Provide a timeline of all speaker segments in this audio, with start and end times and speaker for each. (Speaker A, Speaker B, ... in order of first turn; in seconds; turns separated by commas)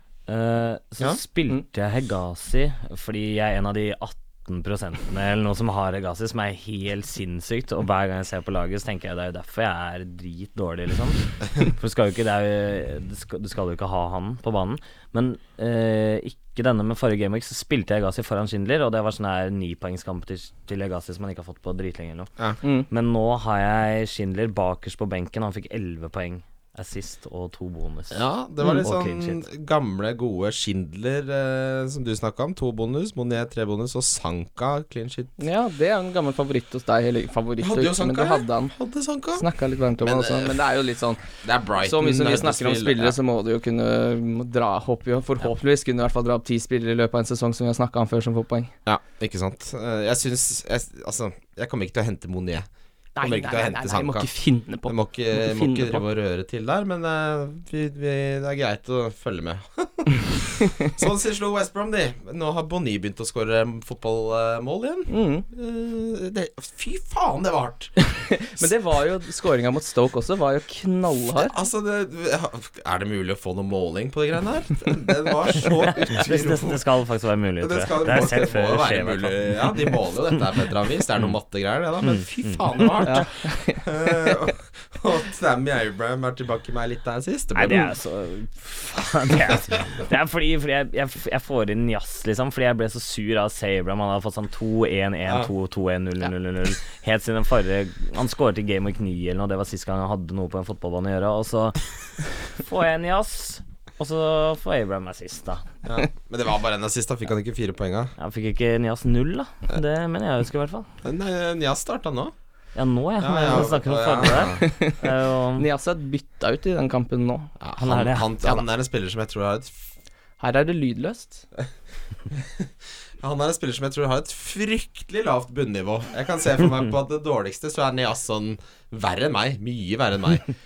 Speaker A: 0.3-22.3, Speaker B: 22.6-22.9, Speaker A: 22.9-29.4, Speaker C: 28.1-35.3, Speaker B: 35.4-38.7, Speaker C: 37.6-39.5, Speaker B: 39.4-41.2, Speaker C: 40.0-40.5, Speaker C: 41.4-43.2, Speaker B: 41.8-48.7, Speaker C: 48.9-52.7, Speaker B: 53.2-56.0, Speaker C: 53.2-54.3, Speaker C: 54.9-67.9, Speaker B: 65.1-65.5, Speaker B: 68.0-71.5, Speaker C: 71.4-76.8, Speaker A: 76.1-79.7, Speaker C: 77.6-87.8, Speaker A: 82.0-82.6, Speaker B: 83.0-84.3, Speaker A: 87.5-101.9, Speaker C: 95.3-95.5, Speaker A: 102.5-105.7, Speaker C: 105.8-108.1, Speaker A: 108.2-110.9, Speaker C: 111.0-112.3, Speaker A: 112.8-115.7, Speaker C: 113.2-114.6, Speaker B: 114.5-115.0, Speaker B: 115.6-117.5, Speaker C: 117.6-119.9, Speaker A: 117.8-118.3, Speaker B: 120.4-121.5, Speaker C: 122.3-130.5